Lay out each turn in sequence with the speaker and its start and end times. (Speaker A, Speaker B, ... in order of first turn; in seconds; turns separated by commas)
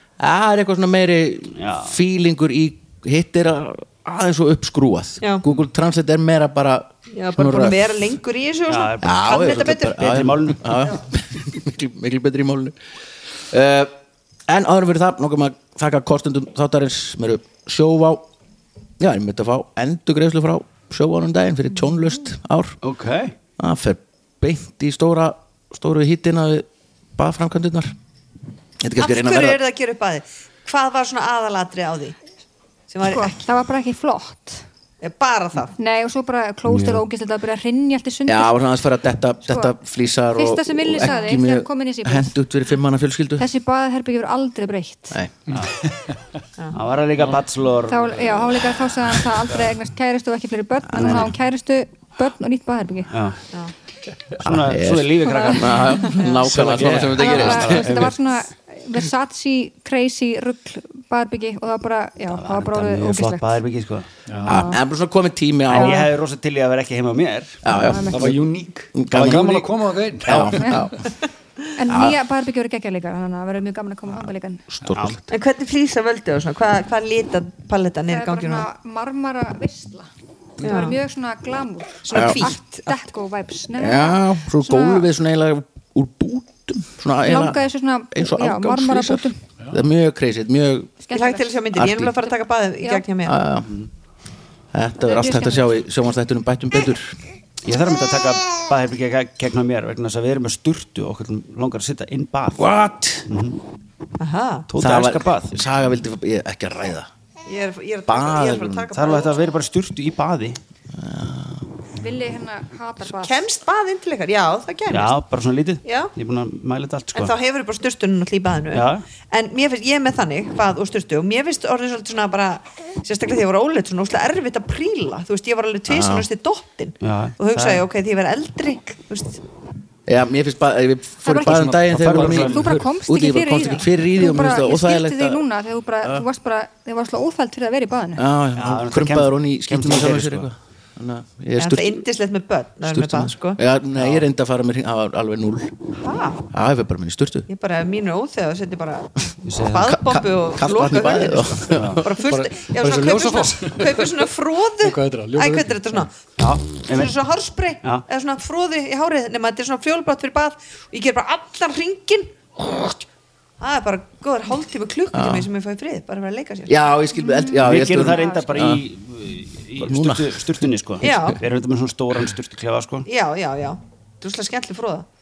Speaker A: 0.2-7.8, Speaker B: 1.6-1.9, Speaker C: 7.1-10.2, Speaker B: 8.7-10.8, Speaker A: 9.0-12.8, Speaker A: 13.5-13.9, Speaker A: 14.5-18.3, Speaker A: 19.0-22.8, Speaker B: 22.8-23.3, Speaker A: 23.6-27.9, Speaker A: 28.8-29.6, Speaker C: 29.0-32.2, Speaker C: 32.9-33.4, Speaker D: 33.0-34.6, Speaker C: 35.0-35.8, Speaker D: 35.8-38.5, Speaker B: 36.7-37.0, Speaker A: 38.3-43.5, Speaker D: 39.5-39.8, Speaker D: 40.3-42.3, Speaker D: 43.4-45.2, Speaker E: 45.5-46.2, Speaker B: 46.7-48.2, Speaker D: 47.9-53.1, Speaker A: 50.9-51.3, Speaker B: 51.0-51.3, Speaker B: 53.1-53.4, Speaker B: 54.4-56.0, Speaker A: 54.4-58.0, Speaker D: 55.3-56.2, Speaker C: 56.2-56.5, Speaker E: 56.4-58.1, Speaker D: 57.1-63.6, Speaker B: 57.4-58.1, Speaker B: 62.3-64.1, Speaker E: 64.3-64.6, Speaker D: 64.4-64.8, Speaker A: 64.5-66.1, Speaker B: 65.7-67.6, Speaker D: 65.7-66.1, Speaker A: 67.6-68.3, Speaker D: 67.7-68.3, Speaker E: 68.1-70.9, Speaker A: 69.0-69.5, Speaker B: 69.1-70.6, Speaker A: 70.2-71.0, Speaker D: 70.6-70.8, Speaker D: 71.8-74.7, Speaker A: 71.9-72.2, Speaker A: 74.7-75.2, Speaker B: 74.9-75.2, Speaker C: 75.3-78.7, Speaker D: 78.1-80.1, Speaker D: 80.6-85.1, Speaker C: 80.6-81.0, Speaker C: 82.0-82.9, Speaker A: 82.1-82.5, Speaker A: 83.8-87.6, Speaker D: 87.2-89.4, Speaker A: 88.1-90.9, Speaker D: 91.0-91.5, Speaker C: 91.1-93.4, Speaker A: 91.8-92.2, Speaker A: 93.2-93.7, Speaker A: 94.7-97.2, Speaker D: 95.0-95.8, Speaker B: 97.6-102.7, Speaker A: 102.5-103.3, Speaker B: 103.3-103.6, Speaker C: 104.2-104.7, Speaker B: 104.7-105.6, Speaker A: 104.8-107.1, Speaker C: 107.5-109.5, Speaker A: 108.1-108.9, Speaker B: 108.9-110.6, Speaker A: 111.0-111.7, Speaker D: 112.0-113.3, Speaker C: 113.0-115.2, Speaker B: 114.9-117.3, Speaker C: 115.8-116.1, Speaker C: 117.1-129.4, Speaker B: 118.7-119.0, Speaker A: 125.9-126.3, Speaker B: 127.0-127.8, Speaker A: 130.1-135.4, Speaker D: 131.2-138.2, Speaker E: 131.4-132.9, Speaker B: 131.9-132.5, Speaker A: 138.2-142.0, Speaker B: 138.6-140.5, Speaker C: 141.6-143.6, Speaker A: 142.9-145.7, Speaker B: 143.9-144.3, Speaker C: 146.0-146.4, Speaker A: 146.5-147.5, Speaker C: 147.5-156.2, Speaker B: 149.4-150.0, Speaker A: 149.9-152.1, Speaker B: 151.7-152.0, Speaker E: 152.3-154.2, Speaker E: 154.8-155.8, Speaker B: 156.4-157.1, Speaker C: 156.9-163.0, Speaker C: 163.6-166.7, Speaker A: 165.1-165.5, Speaker A: 166.7-168.9, Speaker D: 167.1-168.7, Speaker B: 167.6-173.1, Speaker A: 169.8-171.3, Speaker C: 171.0-171.4, Speaker C: 173.1-175.1